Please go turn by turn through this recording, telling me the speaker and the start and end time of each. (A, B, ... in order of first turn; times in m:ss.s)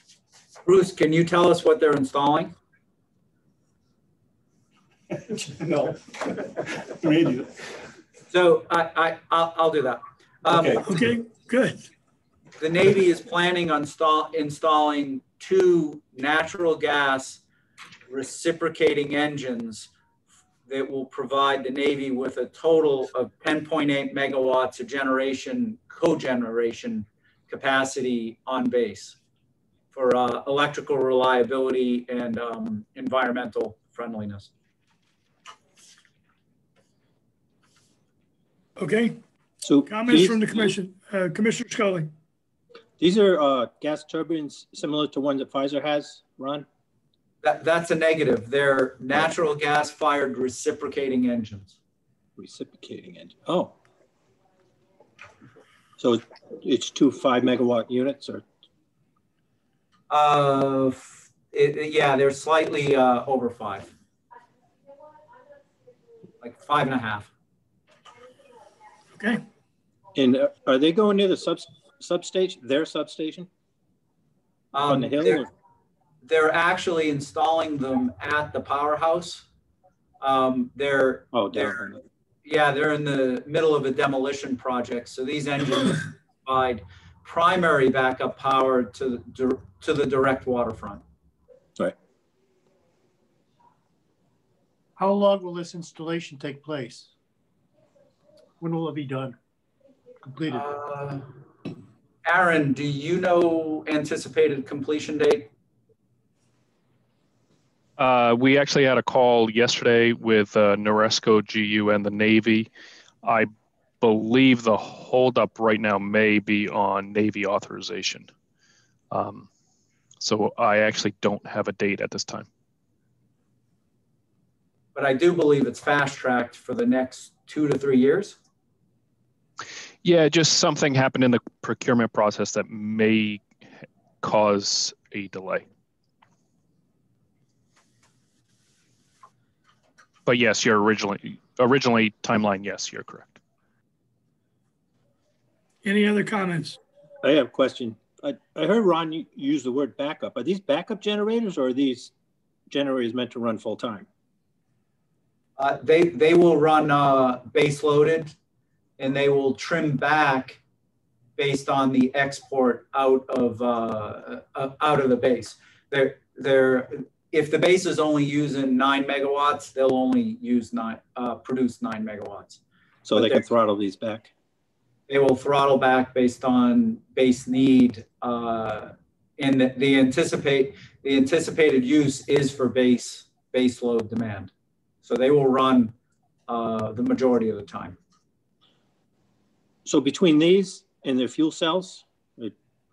0:00.6-0:02.6 A
0:05.1-0:07.7 B
0:08.3-0:10.9 A
0:10.5-0:10.9 B
0:10.8-0:11.9 C
0:12.6-0:17.4 A
0:18.1-0:19.9 A
0:20.7-0:29.2 A
0:29.9-0:34.5 A
0:38.8-0:39.2 C
0:39.6-0:40.7 D
0:39.8-0:42.1 C
0:43.0-0:46.7 D
0:47.4-0:51.8 A
0:52.4-0:53.8 D
0:56.0-0:58.4 D
1:00.1-1:03.9 A
1:06.4-1:07.3 A
1:09.2-1:09.4 C
1:10.2-1:13.5 D
1:14.7-1:15.5 A
1:14.8-1:15.5 D
1:16.2-1:19.5 A
1:20.2-1:31.0 A
1:21.3-1:22.0 D
1:35.0-1:37.1 E
1:38.6-1:39.4 E
1:40.3-1:40.7 E
1:40.5-1:41.3 A
1:42.2-1:45.5 A
1:48.0-1:52.7 F
1:53.2-1:58.3 F
1:59.1-1:59.5 F
2:00.2-2:02.5 F
2:05.0-2:08.4 A
2:10.0-2:13.6 F
2:14.2-2:15.7 F
2:20.3-2:23.4 F
2:25.8-2:26.8 C
2:27.2-2:32.1 D
2:32.7-2:34.1 D
2:35.6-2:38.4 A
2:39.0-2:40.6 A
2:41.4-2:52.6 A
2:53.0-2:54.3 D
2:53.2-2:53.5 A
2:55.1-3:04.5 A
3:05.0-3:05.9 A
3:06.5-3:08.0 A
3:09.9-3:12.5 D